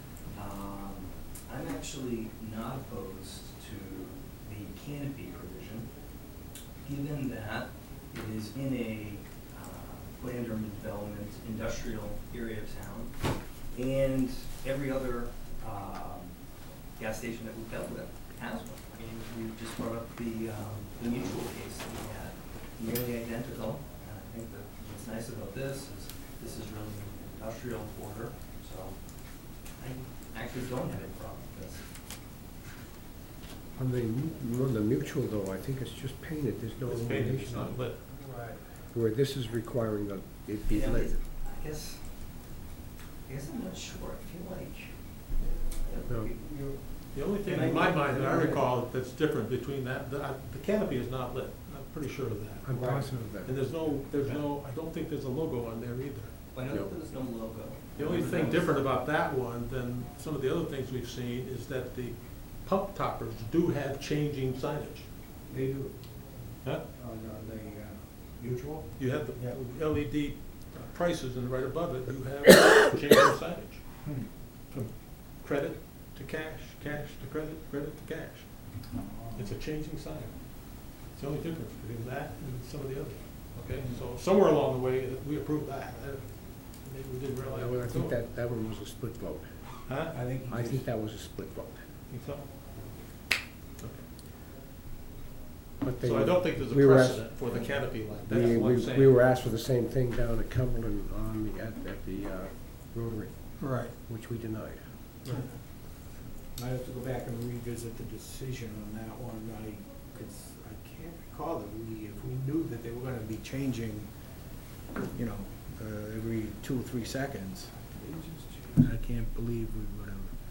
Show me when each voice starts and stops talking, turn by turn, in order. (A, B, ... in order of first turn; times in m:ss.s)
0:00.3-0:05.9 A
0:06.8-0:13.2 A
0:13.7-0:16.4 A
0:17.0-0:29.0 A
0:29.8-0:31.8 A
0:33.8-0:37.4 B
0:36.8-0:38.0 C
0:38.2-0:38.6 A
0:38.9-0:40.7 B
0:40.7-0:42.0 A
0:43.3-0:44.9 A
0:45.8-0:46.8 A
0:47.1-0:56.3 C
0:47.4-0:48.6 A
0:52.8-0:53.5 B
0:56.5-0:58.8 A
0:58.0-1:05.1 C
1:05.5-1:06.0 D
1:07.0-1:09.0 D
1:09.0-1:13.8 C
1:14.7-1:18.5 C
1:19.0-1:19.5 D
1:19.3-1:28.2 C
1:27.6-1:29.4 B
1:29.9-1:30.2 C
1:30.1-1:30.9 D
1:30.5-1:31.8 B
1:32.1-1:32.5 C
1:35.8-1:37.2 B
1:36.0-1:39.2 C
1:38.3-1:43.3 B
1:43.6-1:43.9 C
1:44.1-1:44.8 B
1:46.6-1:54.1 D
1:55.1-2:00.3 D